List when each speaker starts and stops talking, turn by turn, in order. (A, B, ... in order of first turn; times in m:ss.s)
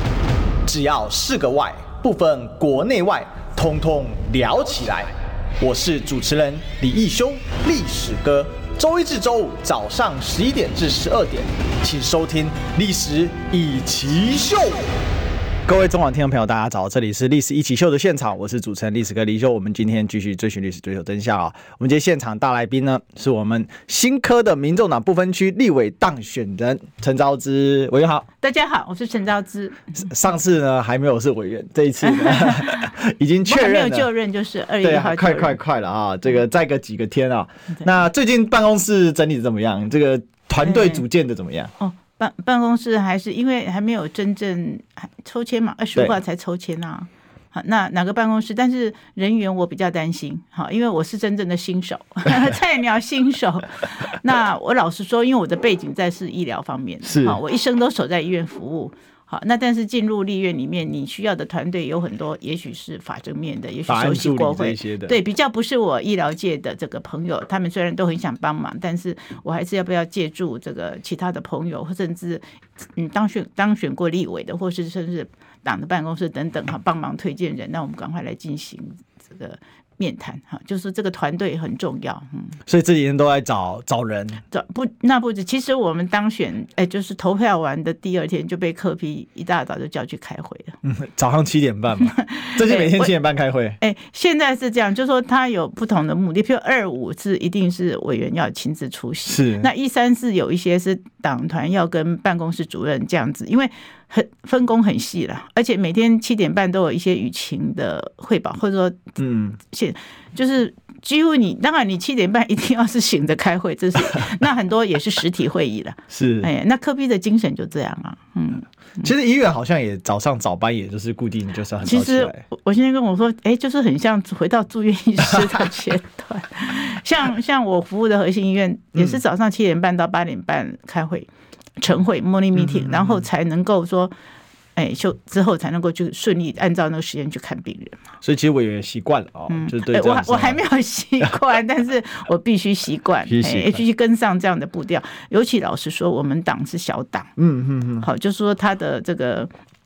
0:00.6-0:14.9 A
0:15.7-0:28.3 A
0:28.4-0:29.8 B
0:29.9-0:34.1 A
0:32.0-0:32.9 B
0:33.5-0:35.6 B
0:34.8-0:41.7 A
0:40.6-0:41.0 B
0:41.8-1:22.6 B
0:57.0-0:57.4 A
1:03.9-1:05.2 A
1:22.7-1:24.4 A
1:24.5-1:30.8 B
1:30.8-1:33.8 A
1:32.1-1:33.1 B
1:33.8-1:59.1 B
1:39.3-1:39.7 A
1:49.2-1:49.6 A
1:56.1-1:56.5 A
1:59.0-2:02.4 A
2:01.8-2:11.3 B
2:09.0-2:09.2 A
2:11.8-2:14.1 B
2:12.6-2:13.2 A
2:14.8-2:18.0 B
2:18.2-2:20.6 A
2:19.5-2:27.3 B
2:23.3-2:23.8 A
2:27.4-2:28.1 A
2:28.0-2:29.5 B